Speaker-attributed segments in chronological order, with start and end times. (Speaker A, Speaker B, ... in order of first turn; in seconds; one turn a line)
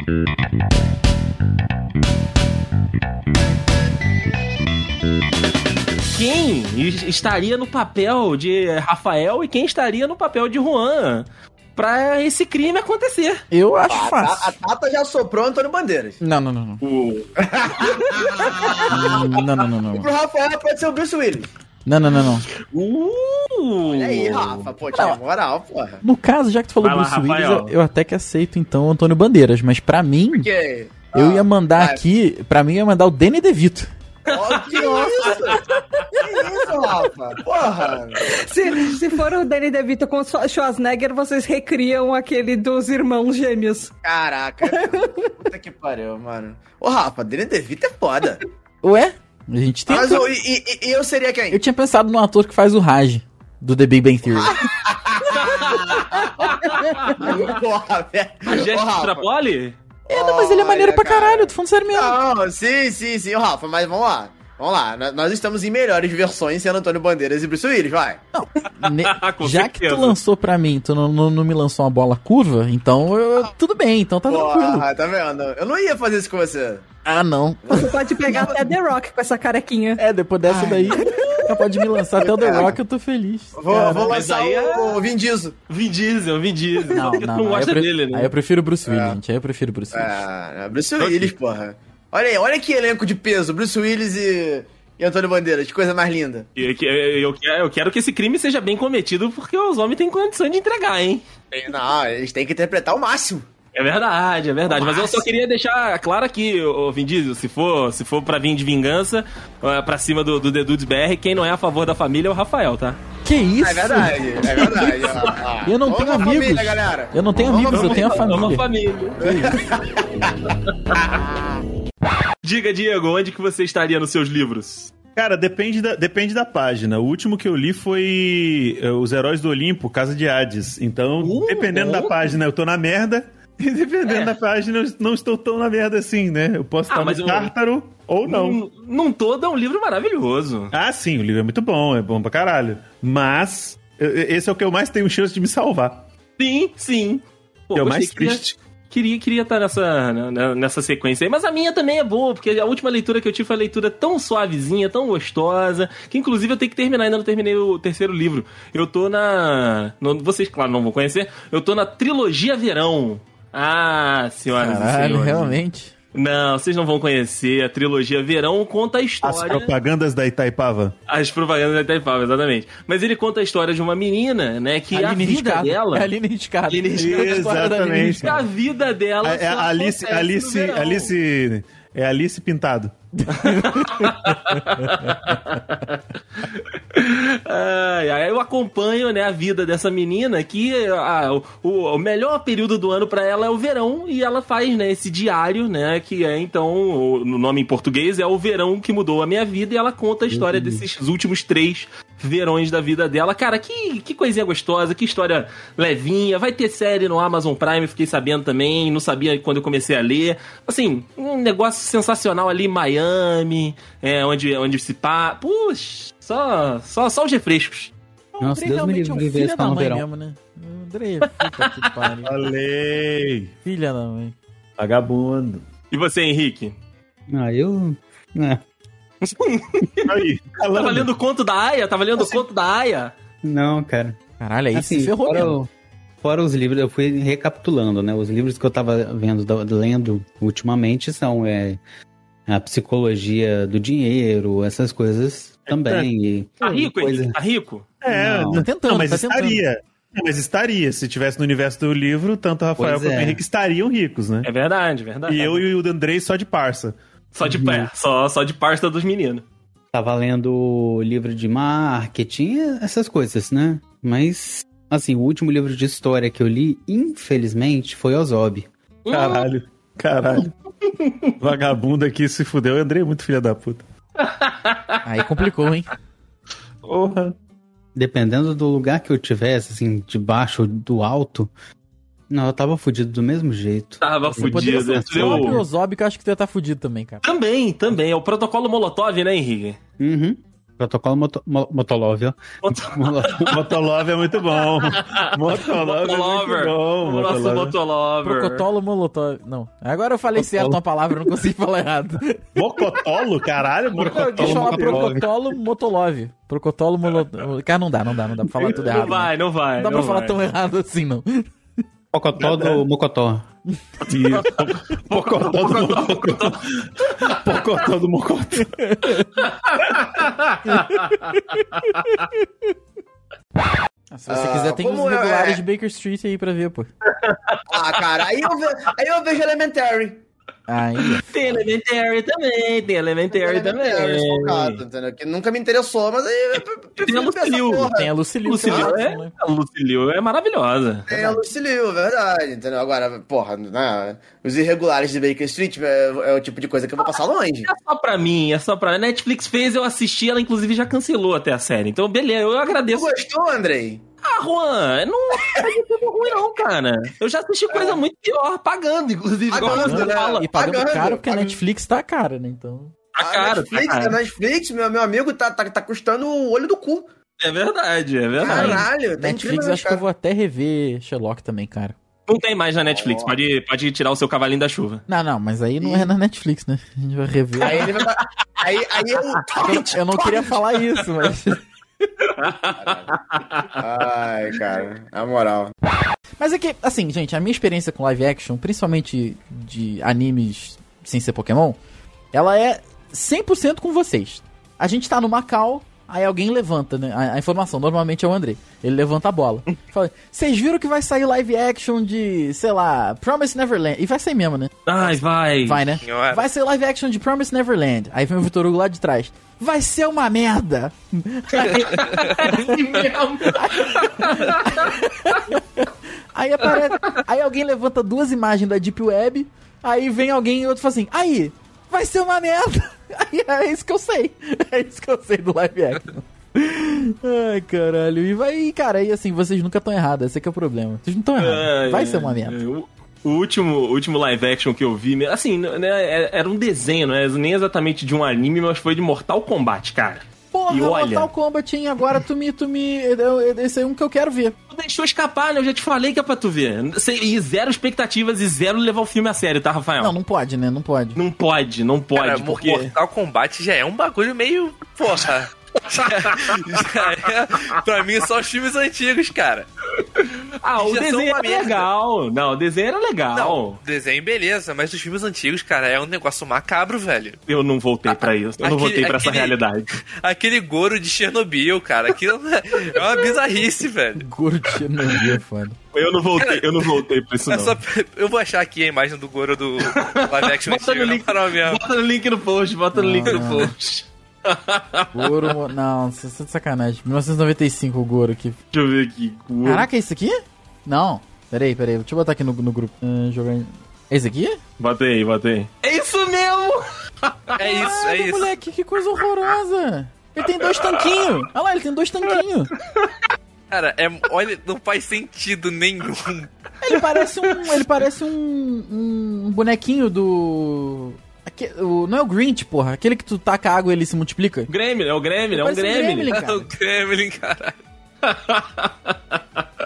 Speaker A: 6.1-13.4
Speaker B: 13.5-14.6
Speaker C: 13.9-16.2
Speaker B: 16.2-16.8
Speaker A: 16.8-17.3
Speaker C: 17.4-21.5
Speaker A: 18.1-18.9
Speaker B: 18.9-20.1
Speaker B: 21.9-22.5
Speaker A: 22.7-24.7
Speaker C: 23.9-26.0
Speaker B: 24.9-25.2
Speaker B: 26.0-30.5
Speaker A: 26.8-27.7
Speaker C: 30.3-32.0
Speaker B: 31.1-33.9
Speaker C: 34.3-38.4
Speaker A: 34.3-36.0
Speaker D: 38.4-43.9
Speaker C: 44.0-48.4
Speaker B: 44.7-45.3
Speaker B: 48.8-50.3
Speaker C: 49.9-51.6
Speaker B: 51.5-54.6
Speaker C: 54.3-59.3
Speaker A: 55.3-57.4
Speaker B: 56.1-57.5
Speaker A: 58.5-59.8
Speaker C: 60.1-68.2
Speaker B: 60.1-62.2
Speaker B: 68.3-74.9
Speaker A: 68.8-70.2
Speaker C: 74.3-76.8
Speaker B: 77.0-78.5
Speaker C: 77.7-78.7
Speaker D: 77.7-80.0
Speaker B: 80.0-84.2
Speaker C: 80.5-82.8
Speaker C: 83.6-85.5
Speaker A: 84.1-85.1
Speaker A: 85.7-88.3
Speaker B: 86.9-90.2
Speaker C: 88.9-89.2
Speaker C: 89.9-96.5
Speaker A: 91.0-91.3
Speaker A: 96.6-101.2
Speaker C: 101.5-103.5
Speaker A: 103.8-113.0
Speaker C: 104.7-105.2
Speaker B: 113.2-118.7
Speaker C: 113.6-118.6
Speaker A: 117.7-119.5
Speaker C: 119.2-121.6
Speaker B: 119.2-119.5
Speaker A: 122.4-124.9
Speaker E: 125.2-138.6
Speaker A: 131.2-132.4
Speaker A: 134.1-134.3
Speaker A: 136.9-137.5
Speaker A: 138.3-140.7
Speaker E: 140.7-146.0
Speaker A: 146.4-165.6
Speaker E: 147.8-148.6
Speaker B: 164.5-165.9
Speaker A: 166.1-169.7
Speaker E: 169.2-170.9
Speaker A: 171.1-176.1
Speaker B: 174.9-178.4
Speaker A: 176.7-177.6
Speaker E: 177.0-178.5
Speaker A: 178.2-181.1
Speaker E: 179.2-182.9
Speaker B: 183.2-185.3
Speaker A: 183.4-217.9
Speaker F: 200.3-200.9
Speaker B: 218.3-222.3
Speaker F: 218.4-220.1
Speaker A: 221.6-221.9
Speaker E: 222.2-223.5
Speaker B: 223.7-224.3
Speaker E: 224.8-225.6
Speaker A: 225.9-226.8
Speaker F: 227.3-228.6
Speaker A: 229.2-233.1
Speaker E: 230.0-231.1
Speaker F: 233.4-234.2
Speaker B: 234.4-235.6
Speaker F: 234.7-235.7
Speaker F: 236.2-241.8
Speaker F: 242.5-247.4
Speaker E: 245.7-246.1
Speaker A: 246.6-247.9
Speaker E: 248.0-254.5
Speaker F: 248.1-248.7
Speaker B: 248.5-249.6
Speaker F: 252.8-253.4
Speaker A: 254.4-255.7
Speaker E: 255.3-257.0
Speaker A: 257.3-259.4
Speaker F: 257.4-257.9
Speaker F: 259.9-268.7
Speaker A: 269.1-269.5
Speaker E: 269.1-270.5
Speaker A: 271.0-271.3
Speaker E: 271.4-273.8
Speaker A: 274.2-275.0
Speaker B: 275.0-275.9
Speaker E: 276.9-277.3
Speaker F: 277.9-281.5
Speaker F: 282.3-285.6
Speaker A: 284.0-285.6
Speaker B: 284.3-287.2
Speaker A: 287.2-289.8
Speaker F: 290.0-293.6
Speaker A: 292.6-293.6
Speaker E: 293.5-297.8
Speaker A: 294.7-298.6
Speaker B: 298.2-302.4
Speaker F: 300.4-300.8
Speaker E: 302.6-305.1
Speaker A: 304.0-304.6
Speaker B: 304.0-311.5
Speaker F: 304.4-305.3
Speaker A: 308.6-310.4
Speaker F: 312.1-313.5
Speaker E: 312.4-312.8
Speaker E: 314.1-318.7
Speaker A: 314.3-317.6
Speaker B: 318.6-319.3
Speaker A: 319.5-321.2
Speaker B: 320.6-322.4
Speaker B: 324.1-326.9
Speaker C: 324.3-325.6
Speaker A: 327.2-327.6
Speaker C: 327.7-330.2
Speaker B: 330.7-331.3
Speaker A: 331.1-334.8
Speaker C: 333.3-338.1
Speaker A: 336.6-337.9
Speaker B: 337.9-339.3
Speaker A: 338.4-341.1
Speaker C: 338.6-338.9
Speaker C: 341.1-347.7
Speaker B: 341.1-341.4
Speaker A: 347.7-353.1
Speaker C: 352.7-354.0
Speaker A: 354.2-360.2
Speaker C: 355.4-355.7
Speaker C: 357.7-358.0
Speaker C: 359.5-361.6
Speaker B: 359.6-362.9
Speaker A: 363.1-364.2
Speaker C: 363.2-367.1
Speaker A: 367.4-368.9
Speaker C: 368.4-370.0
Speaker B: 368.4-372.0
Speaker A: 372.3-375.0
Speaker C: 372.9-373.4
Speaker B: 375.1-377.9
Speaker C: 375.8-376.1
Speaker C: 377.6-380.5
Speaker A: 377.7-378.0
Speaker B: 379.6-381.6
Speaker A: 382.4-383.7
Speaker C: 382.7-383.2
Speaker C: 383.7-385.7
Speaker B: 386.4-391.8
Speaker B: 392.3-412.8
Speaker A: 404.9-405.9
Speaker G: 406.0-406.5
Speaker A: 411.6-414.9
Speaker B: 413.5-432.6
Speaker A: 431.4-441.3
Speaker B: 440.5-444.6
Speaker A: 444.7-450.1
Speaker B: 450.0-451.2
Speaker A: 451.2-452.9
Speaker G: 452.1-459.7
Speaker A: 455.9-456.6
Speaker A: 460.2-463.8
Speaker G: 460.8-461.9
Speaker G: 463.3-467.4
Speaker A: 467.5-469.9
Speaker G: 468.1-469.6
Speaker G: 470.2-474.2
Speaker B: 474.2-475.8
Speaker A: 475.9-477.8
Speaker G: 476.4-476.6
Speaker G: 477.5-481.8
Speaker A: 479.9-485.5
Speaker B: 482.9-483.7
Speaker B: 485.1-488.6
Speaker A: 488.7-489.9
Speaker B: 489.6-494.6
Speaker A: 494.8-497.9
Speaker G: 497.6-498.5
Speaker B: 497.6-502.7
Speaker A: 500.8-501.1
Speaker G: 503.7-506.5
Speaker B: 506.8-514.7
Speaker A: 514.7-516.3
Speaker B: 515.5-516.7
Speaker G: 516.3-517.8
Speaker A: 518.2-519.4